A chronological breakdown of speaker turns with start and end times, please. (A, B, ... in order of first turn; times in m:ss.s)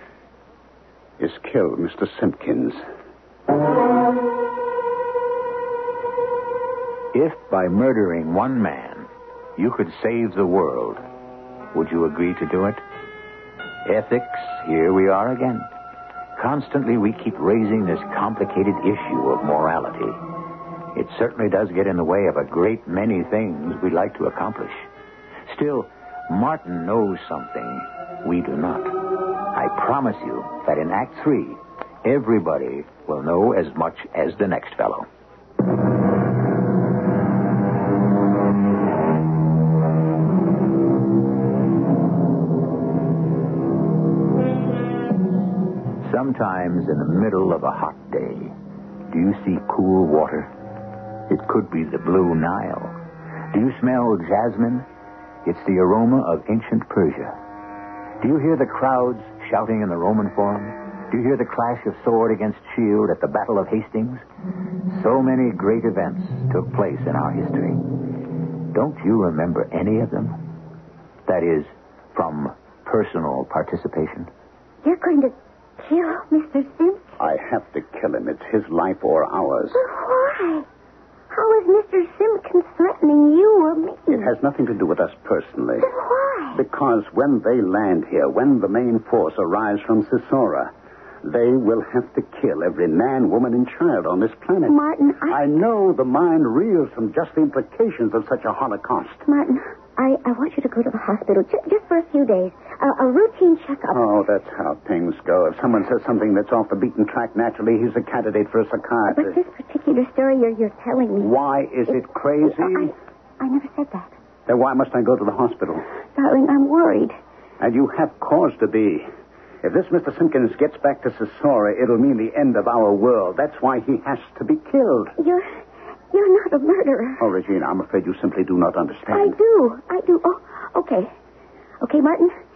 0:01.2-0:02.8 A
0:07.1-0:11.0 B
0:11.7-0:12.8 B
0:13.8-0:15.7 B
0:16.4-0:20.2 B
0:20.9-0:24.9 B
0:25.5-0:29.0 B
0:29.5-0:35.1 B
0:46.0-0:48.5 B
0:49.1-0:50.5 B
0:51.3-0:53.0 B
0:53.5-0:54.9 B
0:55.4-0:57.4 B
0:58.2-1:04.2 B
1:04.9-1:07.9 B
1:08.7-1:10.4 B
1:11.3-1:14.3 B
1:14.8-1:17.2 C
1:17.2-1:19.8 A
1:19.7-1:20.7 C
1:21.3-1:24.3 C
1:24.1-1:25.9 A
1:25.8-1:26.6 C
1:26.5-1:30.7 A
1:31.2-1:34.8 A
1:34.7-1:35.4 C
1:35.3-1:39.2 A
1:39.3-1:44.0 C
1:43.9-1:49.4 A
1:49.1-1:51.3 C
1:51.2-1:52.9 A
1:52.4-1:54.1 C
1:54.5-1:55.8 A
1:56.2-1:57.2 C
1:57.6-1:59.1 A
1:59.6-2:05.1 A
2:05.2-2:05.6 C
2:06.1-2:07.2 C
2:07.2-2:09.4 A
2:09.1-2:11.1 C
2:11.8-2:12.4 C